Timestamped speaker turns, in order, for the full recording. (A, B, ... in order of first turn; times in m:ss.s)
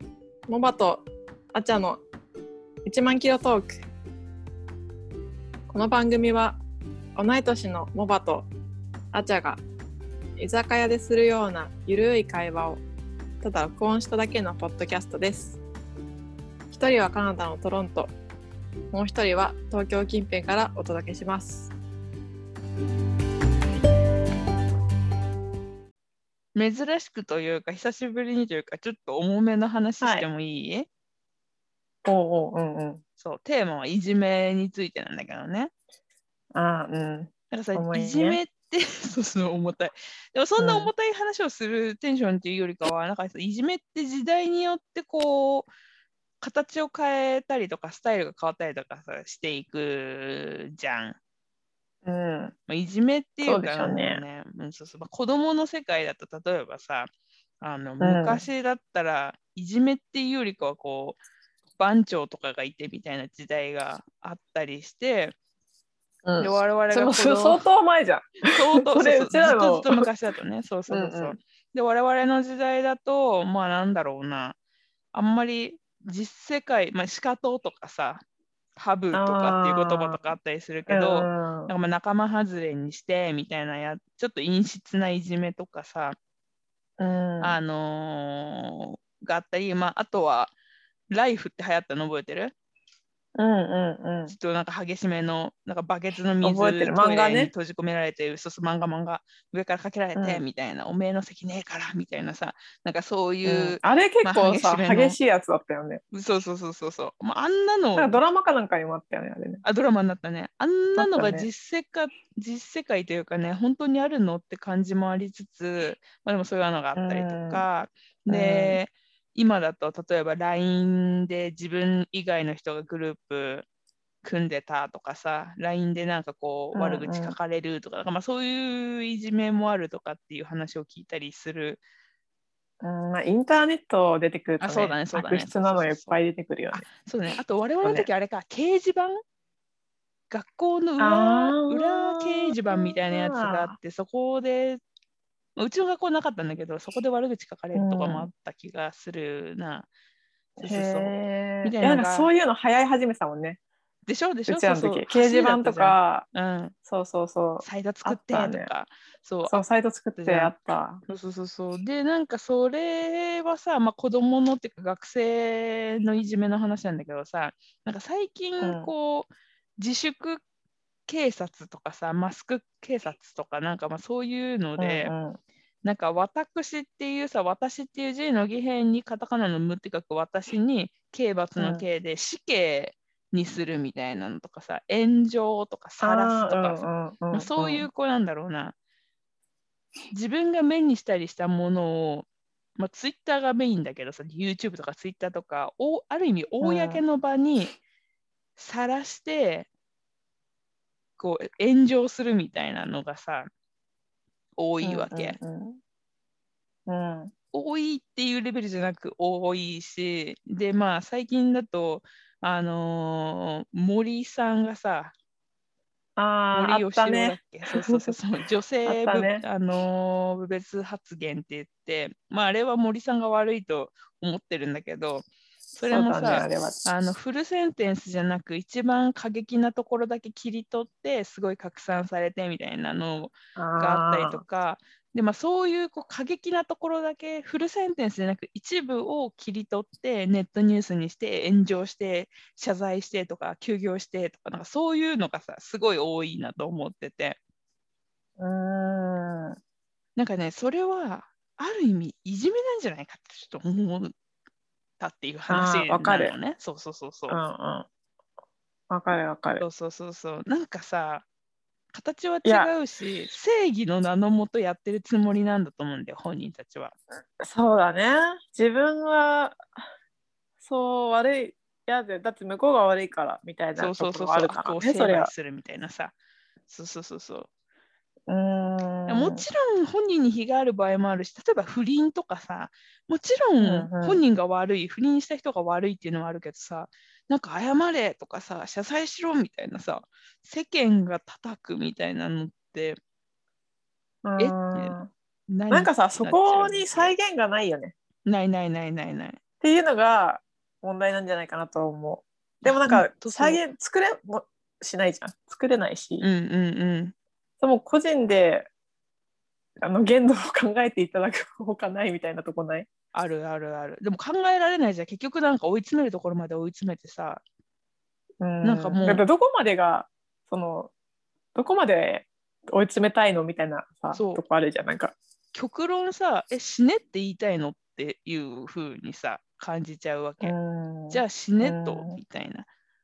0:00.5-0:02.0 A
0:02.9-0:03.8 A
0:05.7-0:06.6 A
0:07.2-0:08.5 A
0:09.1-0:09.6 A
0:10.4-0:12.8 A
0:13.4-0:15.6 A
0:16.7-0:18.1 A
0:18.9-0:21.7 A
0:26.6-0:30.9 B
0:30.0-0:30.3 A
0:32.0-0:33.0 A
0:33.2-0:35.7 B
0:36.5-0:38.4 A
0:37.5-0:45.7 B
0:40.6-0:40.9 A
0:46.4-0:51.2 B
0:52.0-0:52.6 A
0:52.7-0:57.1 B
0:53.4-0:54.2 A
0:57.6-1:01.2 B
0:58.0-0:58.4 A
1:01.8-1:05.4 B
1:06.2-1:10.0 A
1:06.4-1:07.6 B
1:08.5-1:14.6 B
1:10.9-1:11.4 A
1:15.1-1:18.2 B
1:18.8-1:26.2 B
1:19.1-1:20.2 A
1:20.9-1:21.7 A
1:27.0-1:27.6 A
1:27.4-1:30.5 B
1:31.1-1:32.5 B
1:33.4-1:34.4 A
1:34.3-1:45.2 B
1:36.4-1:37.5 A
1:40.2-1:40.4 A
1:43.4-1:46.0 A
1:46.1-1:48.2 B
1:48.0-1:49.6 A
1:49.6-2:03.7 B
1:51.0-1:51.5 A
1:57.0-1:57.7 A
1:58.3-1:58.8 A
2:04.2-2:11.8 B
2:06.7-2:07.3 A
2:12.8-2:16.9 A
2:14.6-2:16.2 B
2:16.7-2:19.2 B
2:17.8-2:18.1 A
2:20.3-2:24.8 B
2:21.0-2:23.8 A
2:25.6-2:29.9 B
2:27.7-2:28.3 A
2:30.6-2:33.6 A
2:30.6-2:32.3 B
2:34.1-2:36.8 B
2:34.5-2:36.3 A
2:36.8-2:38.7 A
2:37.6-2:39.6 B
2:39.4-2:41.0 A
2:40.2-2:40.5 B
2:41.1-2:50.4 B
2:48.6-2:48.9 A
2:51.1-2:55.1 B
2:54.8-2:55.4 A
2:55.8-3:08.8 B
3:01.6-3:01.8 A
3:06.0-3:07.9 A
3:10.1-3:17.8 B
3:16.6-3:17.0 A
3:18.6-3:19.7 B
3:21.2-3:23.5 B
3:24.6-3:25.4 B
3:24.8-3:25.8 A
3:26.9-3:27.3 A
3:27.5-3:35.1 B
3:36.2-3:38.1 A
3:36.5-4:07.4 B
3:38.9-3:39.4 A
3:45.8-3:46.9 A
3:53.6-3:54.4 A
4:08.4-4:09.6 A
4:10.2-4:14.1 B
4:15.0-4:17.4 B
4:15.5-4:16.4 A
4:17.3-4:17.9 A
4:18.9-4:19.6 A
4:19.6-4:21.2 B
4:21.9-4:26.9 B
4:22.4-4:22.7 A
4:27.4-4:29.6 A
4:30.6-4:35.3 A
4:33.8-4:36.1 B
4:36.7-4:37.5 B
4:38.3-4:39.4 A
4:39.1-4:53.0 B
4:43.6-4:44.2 A
4:54.2-4:55.1 A
4:54.4-4:55.0 B
4:55.5-4:57.1 B
4:55.7-4:57.9 A
4:58.2-4:59.4 B
4:59.6-5:06.3 A
5:02.6-5:03.6 B
5:06.2-5:07.1 B
5:07.6-5:08.7 A
5:09.8-5:12.9 A
5:13.1-5:17.4 B
5:18.4-5:20.9 A
5:18.6-5:19.2 B
5:21.6-5:25.2 A
5:24.1-5:24.4 B
5:25.5-5:30.5 B
5:30.4-5:32.2 A
5:31.1-5:32.7 B